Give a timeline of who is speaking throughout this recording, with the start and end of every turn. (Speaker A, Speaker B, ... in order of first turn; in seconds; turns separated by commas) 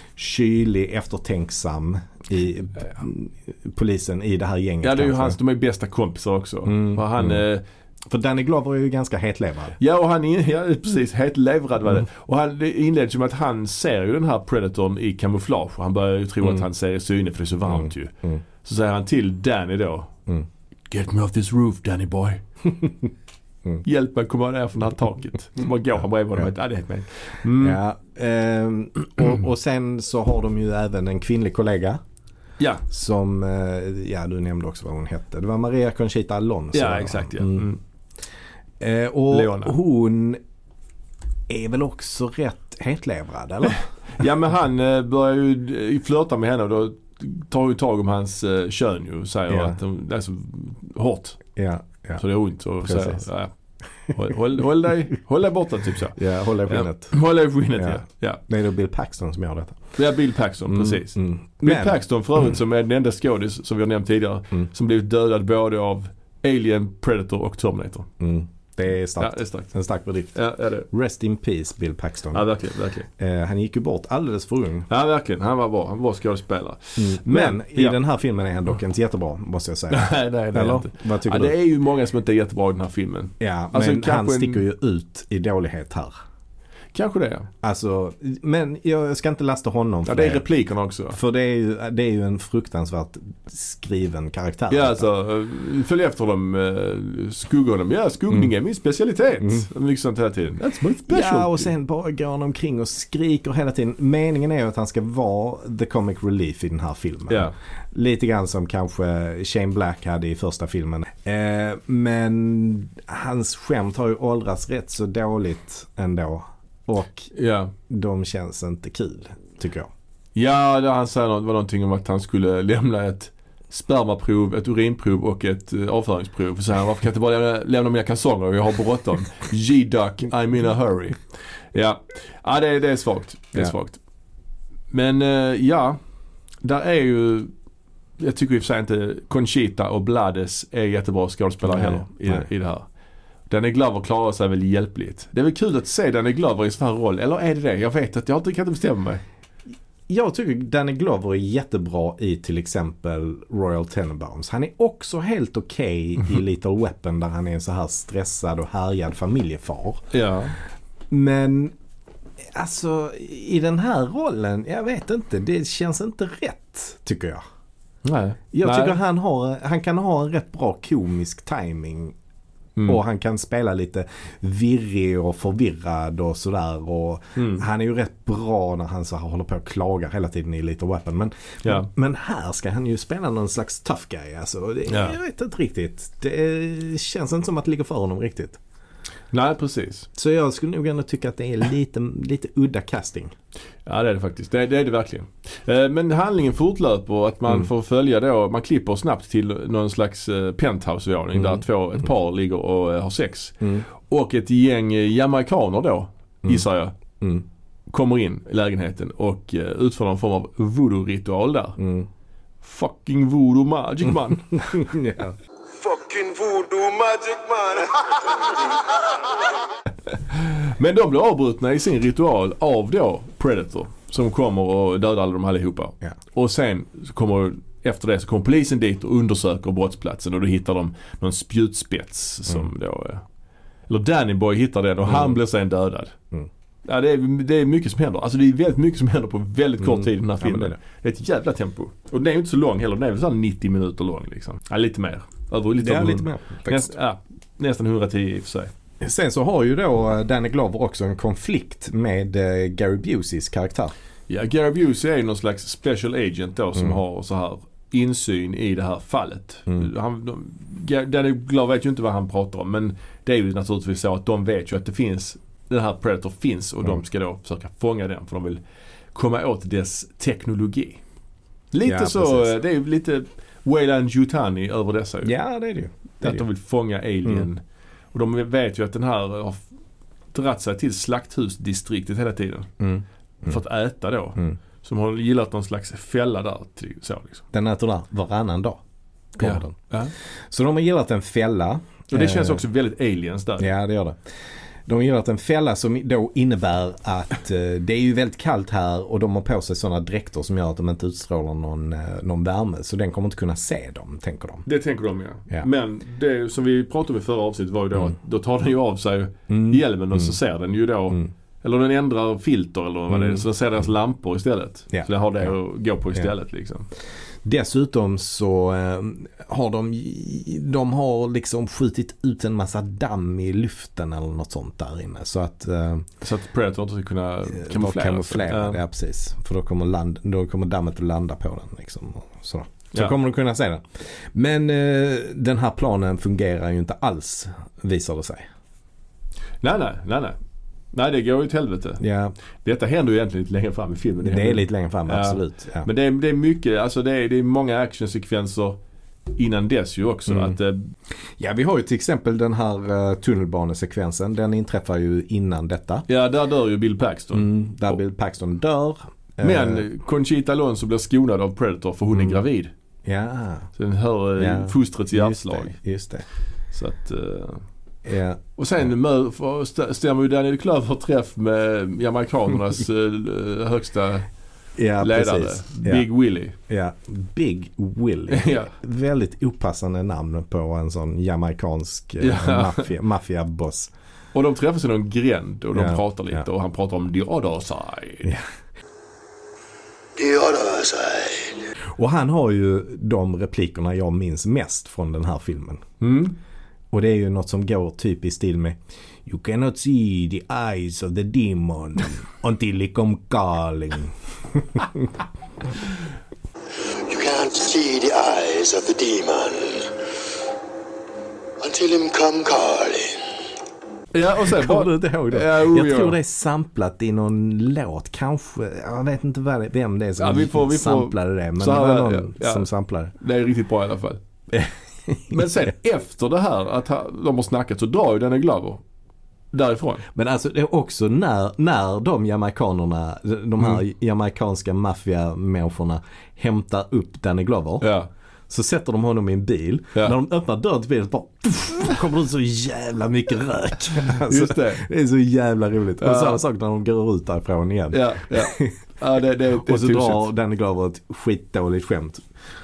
Speaker A: 0.2-5.4, Speaker B: 4.8-7.6, Speaker A: 6.7-7.4, Speaker A: 8.1-9.8, Speaker B: 9.8-20.1, Speaker A: 17.7-18.4, Speaker B: 20.9-22.4, Speaker B: 23.8-27.8, Speaker A: 27.5-32.0, Speaker B: 32.6-32.9, Speaker A: 32.9-37.7, Speaker B: 36.7-37.8, Speaker A: 38.8-40.4, Speaker B: 39.3-39.8, Speaker A: 41.5-43.8, Speaker B: 44.2-51.4, Speaker A: 49.5-49.8, Speaker A: 51.6-52.2, Speaker B: 52.2-53.5, Speaker A: 52.8-53.2, Speaker B: 54.1-58.4, Speaker A: 56.2-57.1, Speaker A: 57.8-59.9, Speaker B: 60.0-68.1, Speaker A: 60.7-62.0, Speaker A: 68.2-70.4, Speaker B: 69.2-69.7, Speaker B: 70.3-70.9, Speaker A: 70.9-72.5, Speaker B: 72.3-73.1, Speaker A: 73.2-74.9, Speaker B: 74.9-78.0, Speaker A: 77.0-81.5, Speaker B: 79.9-84.6, Speaker A: 83.4-86.2, Speaker B: 86.9-87.5, Speaker A: 87.6-90.4, Speaker B: 90.1-91.2, Speaker A: 91.1-95.1, Speaker B: 94.7-101.7, Speaker A: 101.1-117.3, Speaker B: 107.3-107.5, Speaker B: 117.3-117.7, Speaker A: 117.9-119.9, Speaker B: 120.3-131.2, Speaker B: 131.7-134.0, Speaker B: 134.9-136.0, Speaker B: 136.6-137.5, Speaker B: 138.2-142.9, Speaker A: 141.7-142.5, Speaker B: 143.5-149.2, Speaker A: 150.1-160.0, Speaker B: 160.1-160.6, Speaker A: 161.1-161.7, Speaker A: 162.5-167.4, Speaker B: 168.0-169.0, Speaker A: 168.5-172.2, Speaker A: 172.9-188.6, Speaker B: 177.4-177.7, Speaker B: 184.9-185.2, Speaker B: 189.3-190.1, Speaker A: 190.2-193.3, Speaker B: 193.9-206.9, Speaker A: 201.3-201.6, Speaker B: 207.9-211.8, Speaker A: 211.8-212.1, Speaker B: 212.6-214.9, Speaker A: 214.6-215.4, Speaker C: 215.8-219.6, Speaker B: 220.1-233.2, Speaker B: 233.9-236.2, Speaker A: 235.1-235.3, Speaker B: 236.9-248.7, Speaker A: 239.8-240.8, Speaker A: 245.8-246.9, Speaker A: 249.0-253.9, Speaker B: 254.3-268.6, Speaker B: 269.1-271.0, Speaker B: 271.7-275.4, Speaker A: 271.8-272.6, Speaker A: 275.2-276.5, Speaker B: 276.2-277.6, Speaker B: 278.1-279.6, Speaker B: 280.3-282.7, Speaker A: 282.8-283.6, Speaker B: 283.4-287.4, Speaker A: 287.5-288.8, Speaker A: 289.4-289.8, Speaker B: 289.4-290.1, Speaker A: 290.5-292.6, Speaker B: 292.1-293.7, Speaker A: 293.6-294.2, Speaker A: 294.9-304.7, Speaker B: 304.6-316.9, Speaker A: 309.5-310.4, Speaker A: 313.1-313.4, Speaker A: 314.9-315.5, Speaker A: 317.4-326.1, Speaker B: 326.2-328.8, Speaker A: 327.5-338.5, Speaker B: 339.6-340.4, Speaker B: 340.9-342.0, Speaker A: 342.0-342.4, Speaker B: 342.6-348.8, Speaker A: 344.2-345.9, Speaker B: 349.4-350.9, Speaker A: 350.3-350.6, Speaker A: 351.4-356.1, Speaker B: 356.1-358.0, Speaker A: 357.3-359.9, Speaker B: 359.4-362.7, Speaker A: 363.1-363.7, Speaker B: 363.8-365.8, Speaker A: 364.4-366.2, Speaker B: 366.7-367.6, Speaker A: 368.1-368.4, Speaker B: 368.6-374.3, Speaker A: 374.8-376.1, Speaker B: 375.0-376.6, Speaker A: 376.7-383.9, Speaker B: 378.3-378.7, Speaker B: 382.2-382.9, Speaker B: 384.3-388.4, Speaker A: 385.7-386.4, Speaker C: 390.2-391.6, Speaker A: 391.9-395.8, Speaker B: 396.0-396.4, Speaker A: 396.9-405.1, Speaker C: 406.7-410.0, Speaker C: 411.6-413.2, Speaker B: 414.1-416.2, Speaker A: 414.4-423.1, Speaker B: 420.2-424.2, Speaker A: 424.5-425.4, Speaker B: 425.3-428.8, Speaker B: 429.5-430.1, Speaker A: 430.1-437.9, Speaker B: 437.8-438.1, Speaker A: 438.5-448.8, Speaker B: 444.1-444.9, Speaker B: 446.0-446.4, Speaker B: 447.9-450.3, Speaker A: 449.6-452.3